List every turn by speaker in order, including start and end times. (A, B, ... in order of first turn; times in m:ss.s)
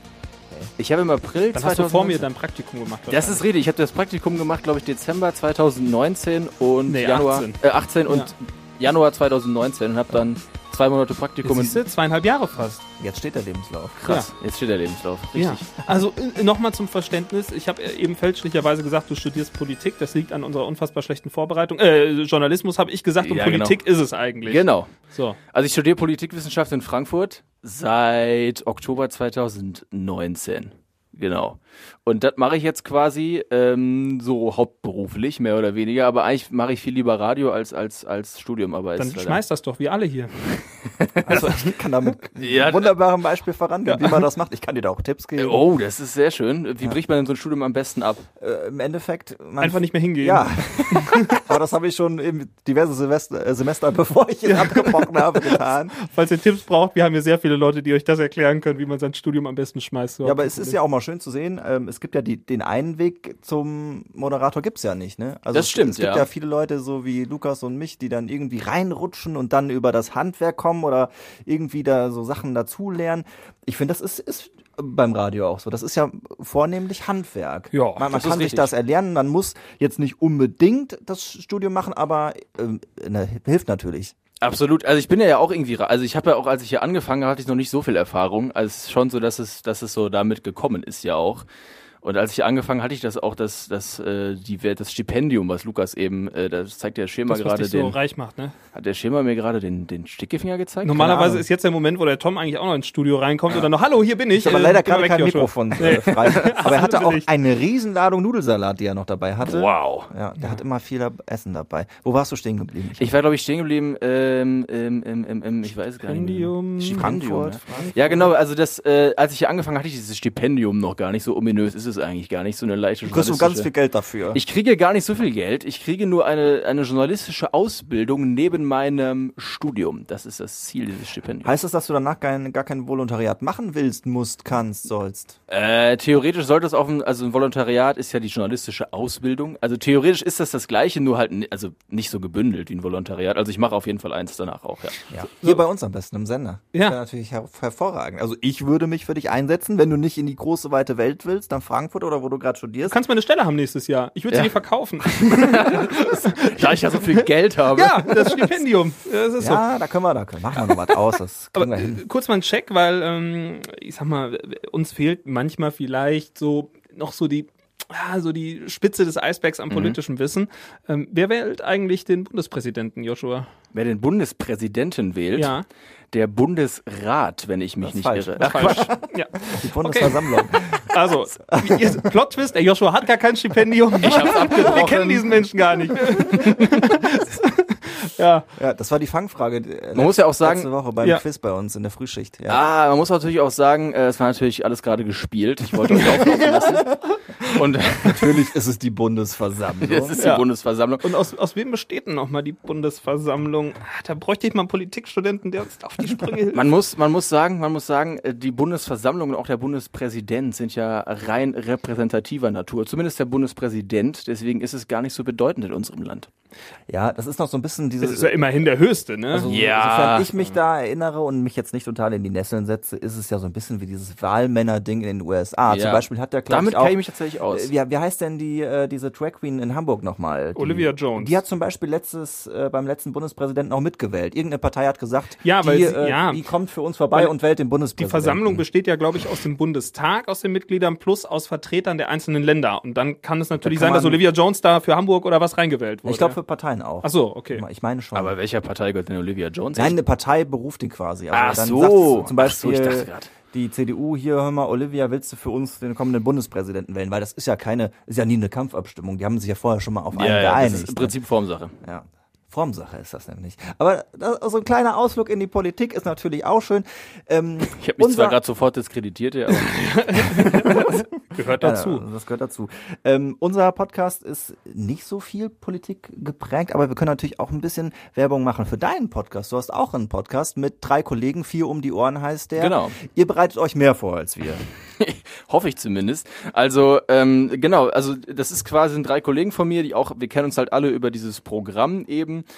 0:00.8-0:02.2 A
0:01.5-0:03.4 B
0:03.1-0:11.8 A
0:06.9-0:07.6 B
0:11.4-0:12.8 B
0:13.0-0:14.0 C
0:14.0-0:15.7 A
0:15.4-0:25.4 B
0:23.2-0:23.8 A
0:24.4-0:39.4 A
0:39.0-0:40.6 B
0:41.0-0:41.5 A
0:41.3-0:41.6 B
0:41.3-0:45.6 C
0:42.4-0:42.9 A
0:43.8-0:44.2 B
0:45.4-0:48.3 A
0:48.4-0:55.9 C
0:49.6-0:51.4 B
0:54.4-1:00.8 B
1:00.2-1:24.1 C
1:05.5-1:06.3 A
1:17.7-1:18.1 B
1:18.1-1:18.7 A
1:24.4-1:31.4 A
1:32.0-1:38.0 A
1:37.3-1:38.5 B
1:38.7-1:41.1 A
1:40.8-1:47.3 B
1:41.0-1:41.4 C
1:44.3-1:53.1 C
1:45.8-1:46.6 A
1:49.4-1:50.1 A
1:53.0-2:03.7 A
1:56.0-1:57.1 B
1:56.8-1:58.2 C
1:57.7-1:58.3 B
2:03.0-2:04.4 C
2:04.3-2:11.5 A
2:11.4-2:15.4 C
2:15.5-2:25.0 A
2:25.1-2:33.0 C
2:32.9-2:39.6 B
2:34.3-2:38.4 A
2:39.4-2:42.0 C
2:41.5-2:53.5 B
2:49.7-2:50.0 A
2:53.7-2:55.6 A
2:55.3-2:55.6 B
2:56.1-2:58.9 A
2:57.8-3:00.9 C
2:58.4-3:08.4 B
3:01.6-3:01.9 C
3:04.0-3:05.4 A
3:06.2-3:06.8 A
3:08.5-3:12.6 C
3:09.9-3:10.7 A
3:12.5-3:18.5 A
3:15.9-3:16.8 B
3:18.0-3:20.2 C
3:19.8-3:21.0 A
3:20.2-3:20.4 B
3:21.0-3:26.7 B
3:26.5-3:36.3 A
3:36.9-3:38.6 C
3:38.0-3:39.5 B
3:39.3-3:47.0 C
3:39.4-3:40.4 A
3:45.7-3:47.7 A
3:47.5-3:58.6 C
3:50.6-3:51.4 B
3:55.4-3:56.5 B
3:58.0-4:06.4 B
4:03.6-4:04.2 C
4:06.0-4:08.3 C
4:07.0-4:07.6 B
4:08.1-4:10.0 A
4:09.7-4:21.1 C
4:11.3-4:13.3 A
4:20.1-4:21.7 A
4:21.8-4:28.4 C
4:27.7-4:30.9 A
4:29.6-4:32.0 B
4:30.5-4:31.0 C
4:31.6-4:44.6 C
4:42.6-4:43.0 A
4:45.0-4:52.4 A